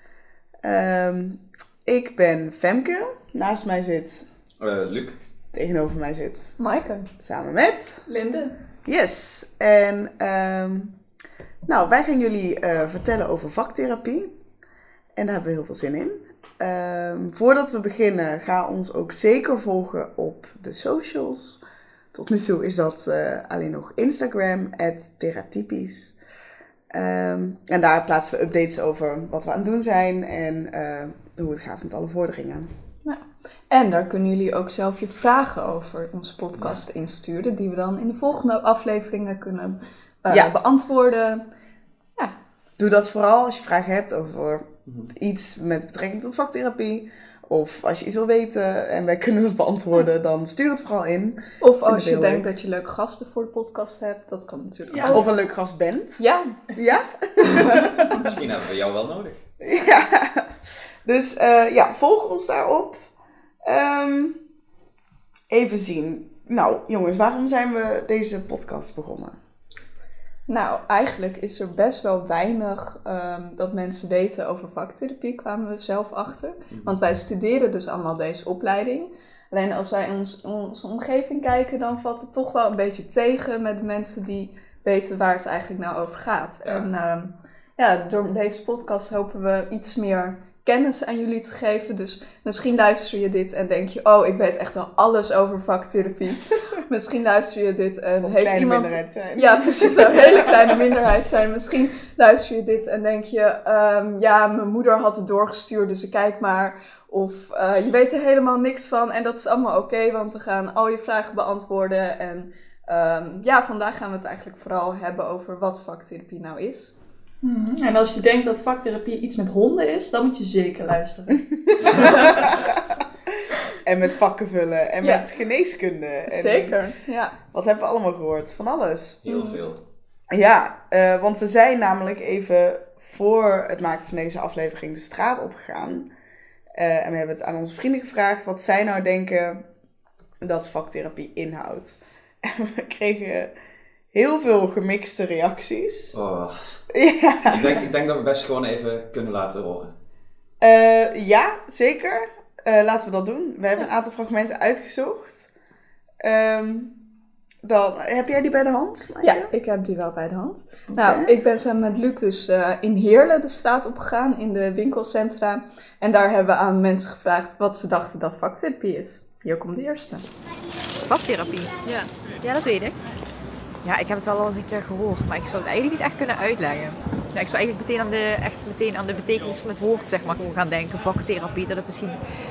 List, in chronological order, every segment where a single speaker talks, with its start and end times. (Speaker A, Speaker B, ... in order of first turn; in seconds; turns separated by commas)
Speaker A: 0.6-4.3, Speaker B: 4.6-5.2, Speaker A: 5.5-6.6, Speaker C: 6.6-7.1, Speaker A: 7.2-8.1, Speaker D: 8.1-8.6, Speaker A: 8.8-11.0, Speaker A: 11.7-14.3, Speaker A: 15.2-21.6, Speaker A: 22.1-26.1, Speaker A: 26.9-32.7, Speaker C: 33.1-41.5, Speaker A: 42.8-52.5, Speaker B: 44.9-45.1, Speaker C: 51.6-55.3, Speaker D: 54.9-55.2, Speaker A: 55.1-58.3, Speaker C: 56.2-56.6, Speaker C: 57.6-57.8, Speaker B: 58.2-59.4, Speaker A: 59.6-63.1, Speaker A: 63.6-64.4, Speaker A: 65.5-69.4, Speaker C: 70.5-116.9, Speaker A: 98.2-100.6, Speaker D: 117.4-122.7, Speaker C: 121.8-122.3, Speaker A: 121.8-122.7, Speaker A: 123.8-127.0, Speaker C: 126.3-127.4, Speaker A: 127.5-129.2, Speaker B: 129.2-129.8, Speaker C: 129.3-129.6, Speaker A: 130.3-136.1, Speaker A: 136.8-139.7, Speaker A: 140.4-143.5, Speaker A: 144.1-146.2, Speaker B: 146.1-146.8, Speaker A: 146.9-147.8, Speaker B: 147.4-149.9, Speaker A: 150.6-155.5, Speaker A: 156.2-156.9, Speaker A: 157.6-159.5, Speaker C: 159.2-170.3, Speaker A: 160.9-161.3, Speaker E: 171.0-173.0, Speaker E: 173.8-182.2